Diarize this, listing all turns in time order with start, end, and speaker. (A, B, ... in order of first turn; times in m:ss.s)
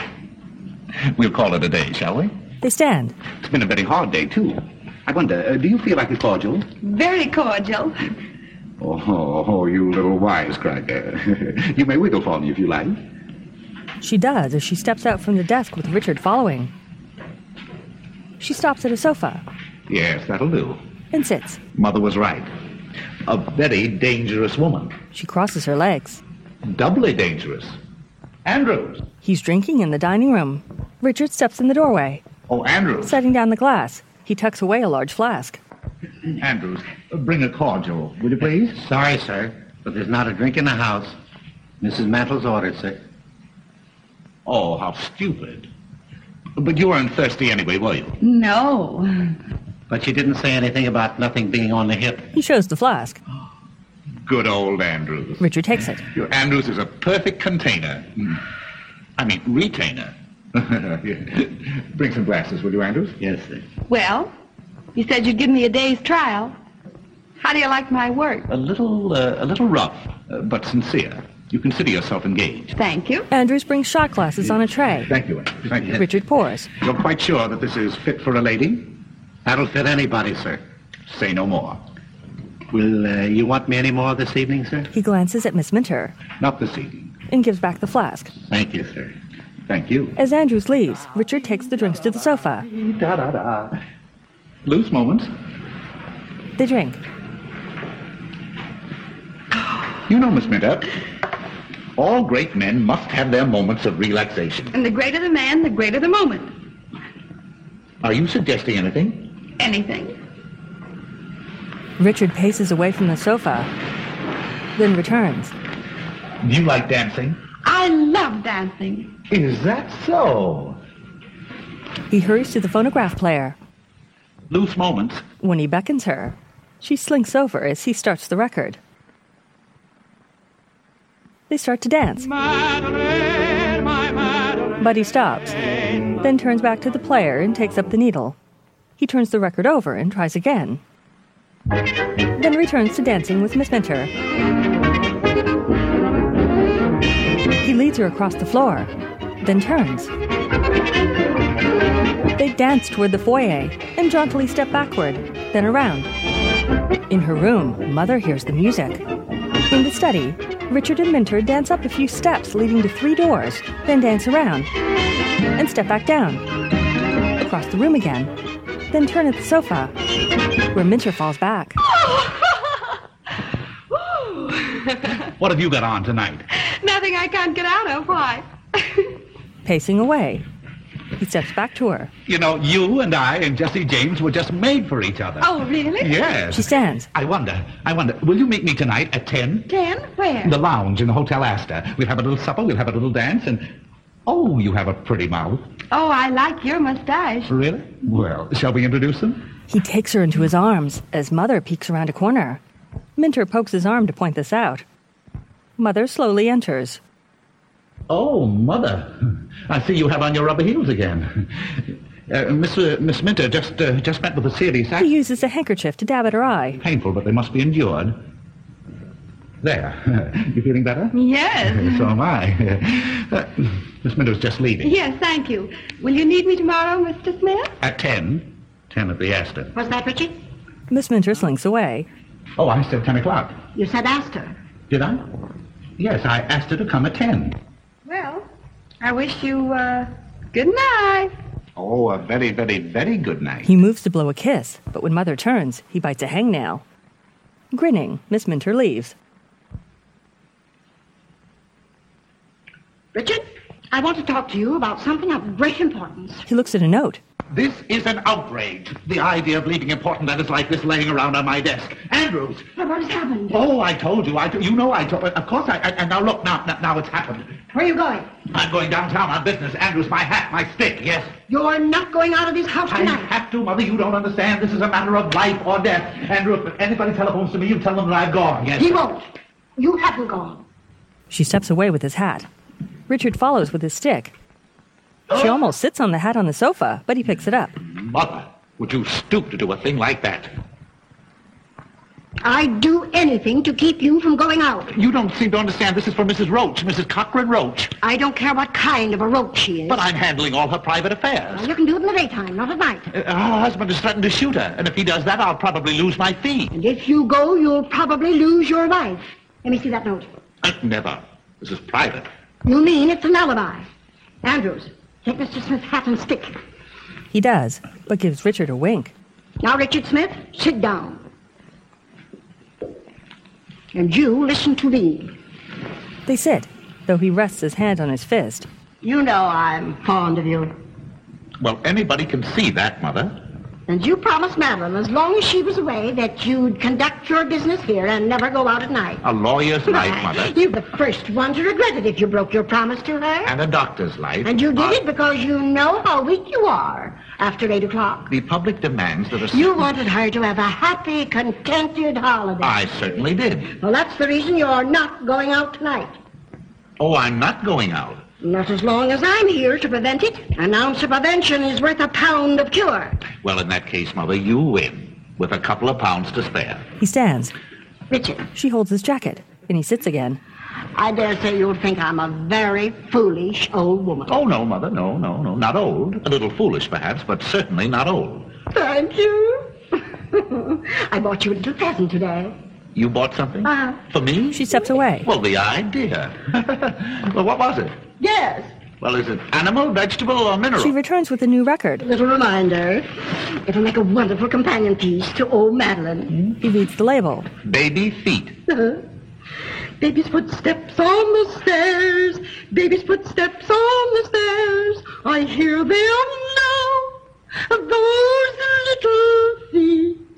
0:01.0-0:02.3 A
0:02.6-0:03.1 B
0:03.4-0:06.7 A
0:06.8-0:08.0 C
0:08.8-0:13.0 A
0:14.0-0:16.7 B
0:18.4-0:19.4 B
0:19.9-0:20.8 A
0:21.1-0:21.6 B
0:21.7-0:22.5 A
0:23.2-0:24.9 A
0:25.1-0:26.2 B
0:26.6-0:27.8 A
0:28.4-0:29.0 A
0:29.2-0:32.2 B
0:32.5-0:33.2 A
0:33.0-0:35.6 B
0:36.4-0:38.8 A
0:38.7-0:41.2 D
0:41.8-0:43.0 D
0:44.4-0:45.7 A
0:46.6-0:48.2 A
0:48.2-0:49.0 C
0:49.9-0:52.3 D
0:52.3-0:53.2 B
0:54.2-0:55.4 A
0:55.4-0:56.0 B
0:56.0-0:58.4 A
0:59.2-1:03.2 A
1:03.2-1:03.6 D
1:03.9-1:04.3 C
1:04.9-1:06.6 C
1:07.4-1:08.5 C
1:08.5-1:12.7 A
1:12.7-1:13.3 C
1:13.3-1:15.1 B
1:15.1-1:16.0 A
1:15.9-1:16.7 B
1:16.8-1:19.0 A
1:19.4-1:20.6 D
1:21.1-1:21.8 A
1:22.7-1:24.9 D
1:24.9-1:26.2 B
1:26.4-1:27.1 A
1:27.3-1:28.3 B
1:28.5-1:29.1 D
1:29.7-1:30.2 A
1:30.2-1:32.6 B
1:32.6-1:33.8 A
1:34.6-1:35.3 A
1:36.6-1:37.0 B
1:40.1-1:40.9 A
1:42.0-1:44.7 A
1:44.7-1:46.4 C
1:48.0-1:49.3 A
1:49.6-1:50.1 C
1:52.0-1:53.7 B
1:54.8-1:55.5 B
1:56.4-1:57.4 A
1:57.6-1:59.1 C
1:59.3-2:00.8 A
2:02.1-2:03.6 B
2:04.5-2:05.2 A
2:05.4-2:08.8 B
2:11.5-2:12.3 B
2:14.8-2:15.6 B
2:16.2-2:18.4 B
2:19.0-2:20.8 B
2:22.3-2:24.1 B
2:27.6-2:30.1 B
2:32.4-2:36.1 B
2:37.1-2:39.0 B
2:39.7-2:44.7 B
2:45.5-2:46.4 B
2:47.4-2:48.3 B
2:48.9-2:49.9 B
2:50.7-2:51.8 B
2:51.9-2:52.8 C
2:53.9-2:55.1 C
2:55.3-2:56.5 A
2:56.5-2:59.1 C
2:59.6-3:00.4 B
3:01.2-3:02.1 B
3:02.2-3:09.7 A
3:05.4-3:06.3 C
3:06.5-3:07.1 B
3:09.7-3:10.6 C
3:10.4-3:13.7 A
3:14.2-3:15.6 A
3:15.9-3:17.5 C
3:17.5-3:19.4 A
3:19.7-3:22.6 B
3:23.2-3:24.8 B
3:25.8-3:27.0 B
3:28.1-3:35.1 A
3:35.0-3:36.8 B
3:36.8-3:38.2 A
3:39.6-3:44.9 A
3:41.1-3:42.1 C
3:44.8-3:47.7 C
3:47.8-3:49.7 A
3:49.7-3:50.4 E
3:50.9-3:52.1 B
3:52.6-3:53.6 A
3:53.7-3:54.6 E
3:54.9-3:55.2 A
3:56.0-3:57.6 A
3:58.1-3:58.4 C
3:59.0-4:01.3 C
4:01.8-4:03.7 A
4:03.6-4:06.8 B
4:07.7-4:09.1 B
4:13.1-4:16.4 E
4:16.4-4:17.2 B
4:17.5-4:22.7 A
4:22.8-4:23.6 E
4:23.5-4:27.6 A
4:27.7-4:28.3 E
4:28.5-4:31.3 A
4:31.5-4:33.3 E
4:32.9-4:39.0 A
4:38.8-4:39.2 E
4:39.8-4:40.6 E
4:41.3-4:42.5 B
4:43.1-4:44.3 B
4:45.3-4:47.8 B
4:47.9-4:50.5 A
4:52.4-4:54.9 E
4:54.9-4:57.9 A
4:58.0-5:00.1 E
4:59.9-5:01.7 A
5:01.5-5:03.1 E
5:03.1-5:06.7 A
5:06.7-5:10.3 E
5:10.6-5:12.3 A
5:12.6-5:13.8 E
5:14.4-5:16.6 E
5:17.3-5:19.1 B
5:19.6-5:21.2 E
5:23.9-5:25.3 E
5:26.2-5:28.7 B
5:29.0-5:30.7 E
5:31.6-5:33.4 A
5:33.9-5:39.2 E
5:39.2-5:40.5 A
5:39.9-5:43.6 E
5:43.4-5:45.0 A
5:44.4-5:48.3 E
5:48.3-5:49.8 A
5:49.5-5:52.8 E
5:52.6-5:53.7 A
5:53.7-5:56.1 E
5:57.0-5:58.2 A
5:58.4-6:03.2 E
6:03.3-6:06.8 A
6:07.0-6:07.5 B
6:08.1-6:08.5 E
6:08.5-6:10.4 B
6:10.9-6:14.4 E
6:14.3-6:18.5 A
6:18.7-6:22.6 E
6:22.9-6:24.6 A
6:23.6-6:24.0 E
6:24.5-6:25.3 B
6:25.2-6:28.0 A
6:28.2-6:28.7 E
6:29.0-6:30.9 A
6:30.8-6:32.0 B
6:32.0-6:36.4 E
6:36.6-6:37.5 B
6:37.6-6:38.6 A
6:38.7-6:39.0 E
6:40.0-6:50.2 E